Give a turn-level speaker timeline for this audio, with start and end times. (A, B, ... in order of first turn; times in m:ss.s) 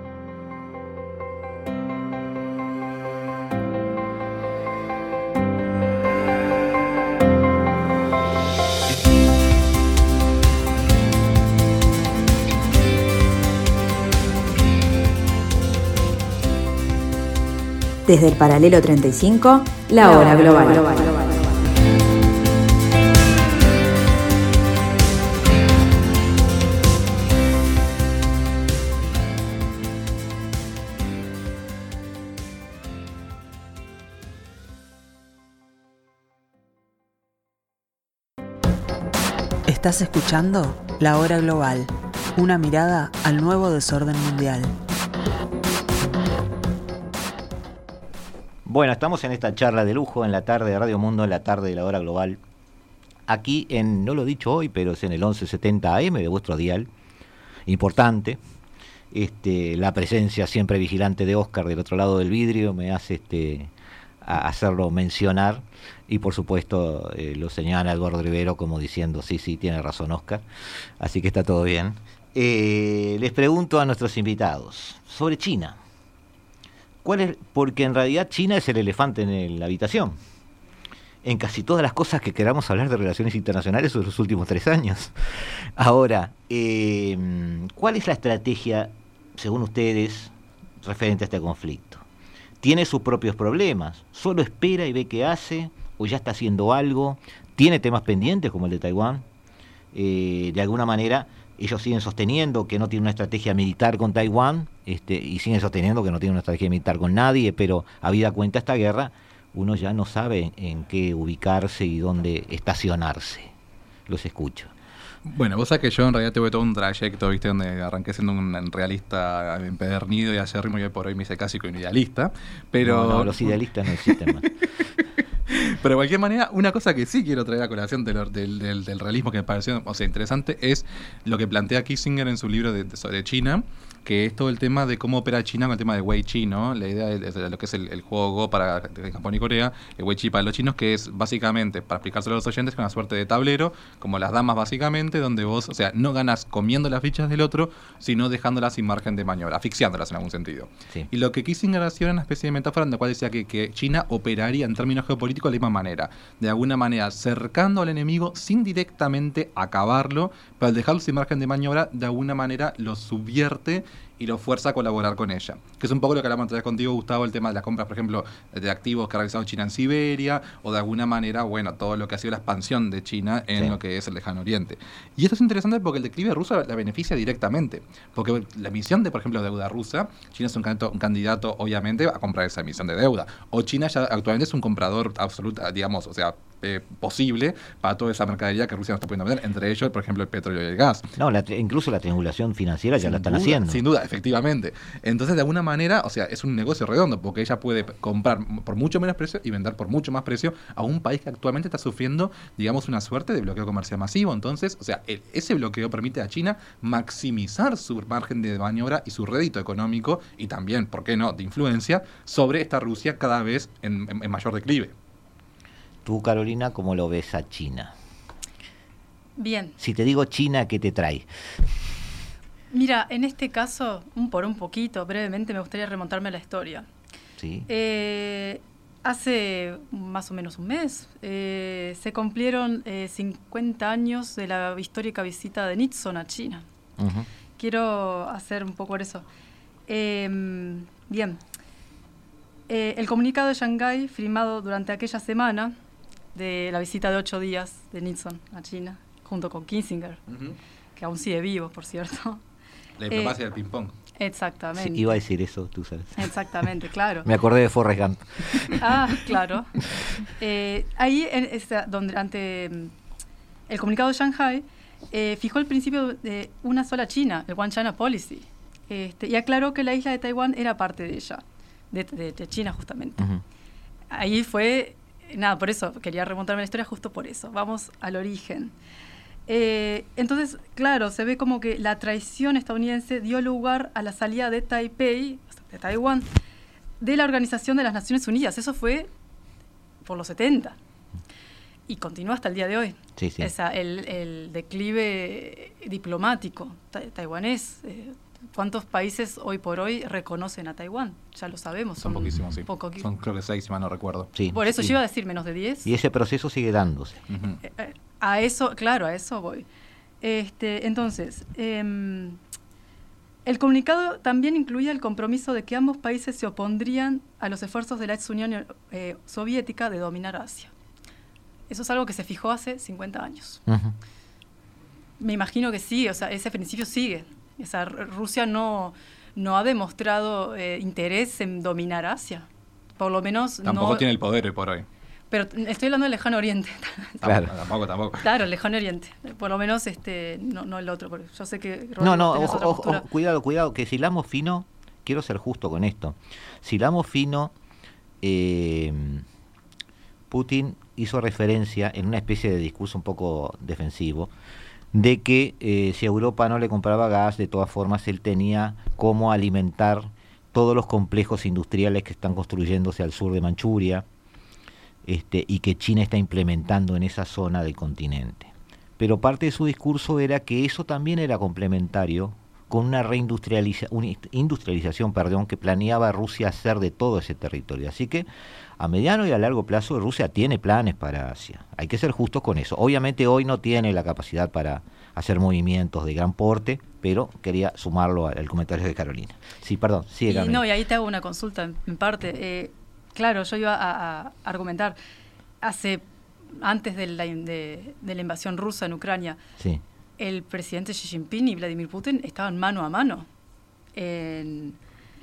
0:18.0-0:21.4 A
0:39.7-0:44.7 B
0:48.6-0:52.4 C
0:53.3-0:56.9 C
0:57.7-0:58.4 C
0:59.1-1:10.4 C
1:11.0-1:15.8 C
1:17.0-1:20.2 C
1:21.2-1:32.0 C
1:32.6-1:39.2 C
1:39.9-1:53.5 C
1:54.1-1:54.7 C
1:55.2-2:04.9 D
2:02.8-2:04.5 C
2:05.5-3:11.1 D
3:11.2-3:13.8 C
3:13.0-3:34.9 D
3:36.0-3:37.9 C
3:39.4-3:39.8 E
3:39.8-3:41.3 C
3:42.7-3:46.9 E
3:47.4-3:47.7 C
3:47.7-3:56.6 E
3:57.0-3:57.3 C
3:57.6-3:59.2 E
3:59.9-4:01.4 E
4:02.7-4:05.7 E
4:06.3-4:10.2 E
4:10.3-4:10.6 D
4:11.0-4:12.4 E
4:13.0-4:13.9 D
4:13.1-4:13.4 E
4:14.2-4:15.1 E
4:14.8-4:16.6 C
4:16.2-4:17.3 E
4:17.2-4:18.9 C
4:18.7-4:19.7 E
4:20.4-4:22.9 E
4:23.7-4:33.3 E
4:34.1-4:38.7 E
4:39.5-4:46.3 E
4:47.0-4:49.1 E
4:50.0-4:50.8 E
4:51.9-5:03.1 E
4:53.2-4:53.5 C
5:02.0-5:04.3 D
5:04.3-5:05.0 C
5:04.5-5:05.9 E
5:05.8-5:07.2 C
5:07.3-5:07.6 D
5:07.6-5:09.6 E
5:10.2-5:12.4 E
5:13.4-5:20.7 E
5:21.7-5:23.6 E
5:23.7-5:23.9 C
5:25.2-5:32.5 E
5:33.0-5:34.0 E
5:33.6-5:34.8 D
5:35.3-5:37.3 E
5:37.2-5:38.3 D
5:37.2-5:37.5 C
5:38.2-5:43.0 E
5:42.0-5:47.5 C
5:48.2-5:49.2 C
5:50.3-5:54.3 C
5:54.9-6:04.0 C
6:05.0-6:18.3 C
6:18.8-6:30.6 C
6:30.3-6:35.0 E
6:35.6-6:39.4 E
6:40.2-6:43.3 E
6:43.9-6:44.8 E